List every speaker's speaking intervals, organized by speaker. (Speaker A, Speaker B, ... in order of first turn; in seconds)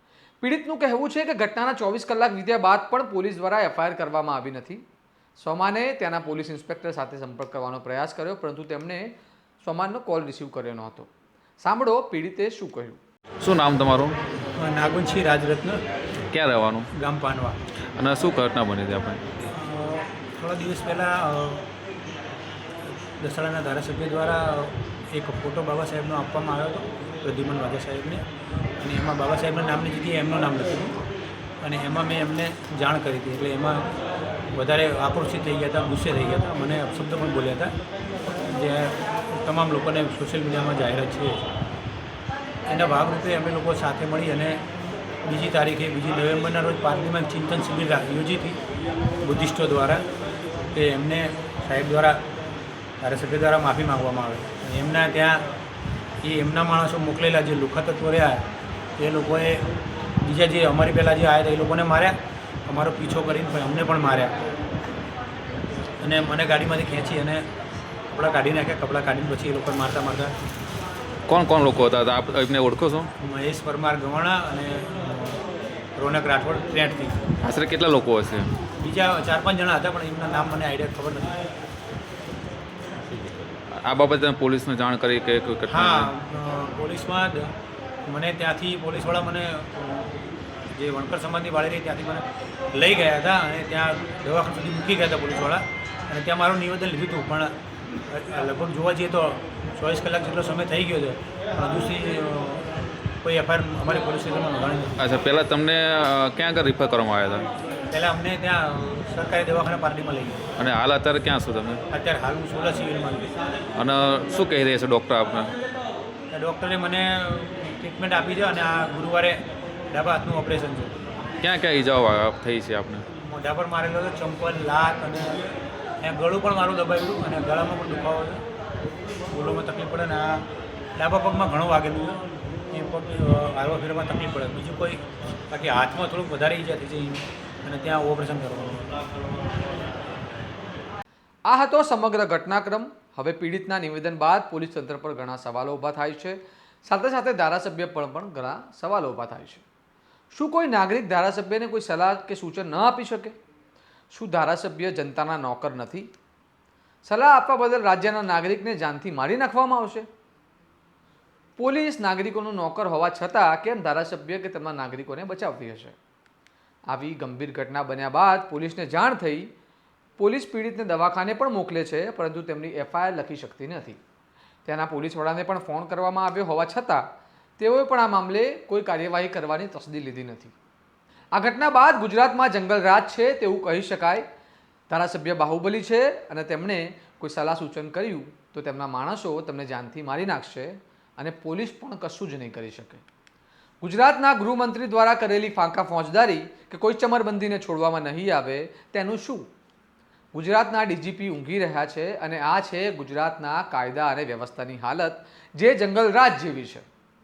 Speaker A: 0.4-4.8, 5.4-9.1, 9.6-11.1, 11.6-13.0, 141.4-149.6, 150.3-153.3, 154.1-156.1, 157.1-160.1, 161.6-165.9, 166.9-169.5, 170.2-174.0, 174.7-177.0, 177.6-180.5, 181.3-184.2, 184.9-193.0, 193.8-199.4, 200.3-206.8
Speaker B: 13.4-14.2, 16.3-16.9, 18.0-19.2, 71.3-73.1, 77.4-78.5, 83.1-86.1, 105.0-107.5, 110.6-111.8, 113.8-115.5, 121.4-123.0
Speaker C: 14.6-15.8, 16.9-17.6, 19.4-21.7, 23.2-28.2, 28.8-30.9, 31.6-33.9, 34.5-37.7, 38.3-41.5, 42.7-44.6, 45.2-48.6, 49.2-50.0, 50.7-52.2, 53.0-55.4, 56.2-58.4, 59.0-59.6, 60.2-64.3, 66.0-67.5, 68.1-70.3, 73.2-75.4, 76.0-77.3, 78.8-81.4, 85.7-87.5, 88.1-90.1, 90.8-97.5, 98.1-102.7, 103.2-104.9, 107.9-110.4, 111.9-113.3, 116.3-119.4, 119.9-120.9, 123.3-125.4, 126.0-128.4, 129.3-130.4, 130.9-132.2, 132.7-138.9